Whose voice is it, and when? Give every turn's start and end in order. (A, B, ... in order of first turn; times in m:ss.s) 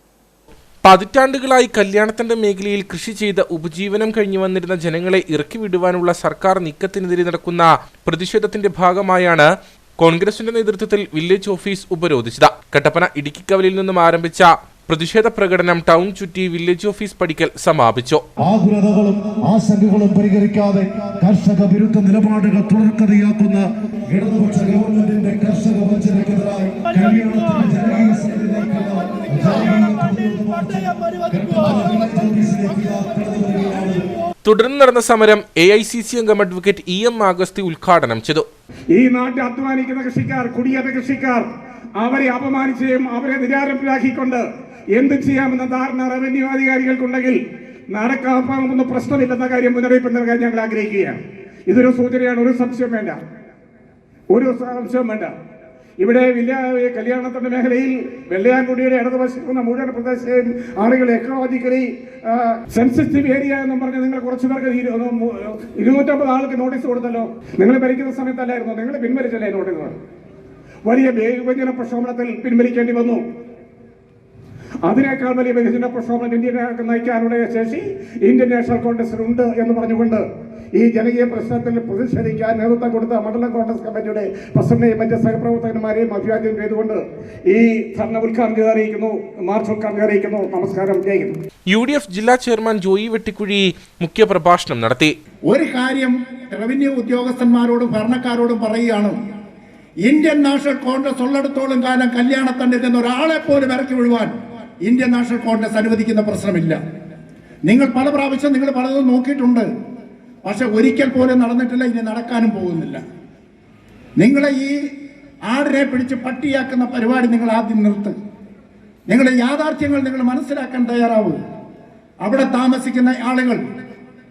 0:00.8-0:09.5 A
0:10.0-0:18.2 A
0:18.4-0:34.1 B
0:34.4-0:38.4 A
0:38.9-0:47.4 C
0:47.9-0:53.2 C
0:54.3-0:55.3 C
0:56.0-1:10.0 C
1:10.8-1:13.2 C
1:14.8-1:31.4 C
1:31.7-1:35.1 A
1:35.5-1:39.2 D
1:40.0-1:44.3 D
1:44.8-1:46.8 D
1:47.6-1:49.7 D
1:50.4-1:53.0 D
1:54.2-1:54.8 D
1:55.5-1:58.1 D
1:59.1-2:01.4 D
2:02.2-2:03.6 D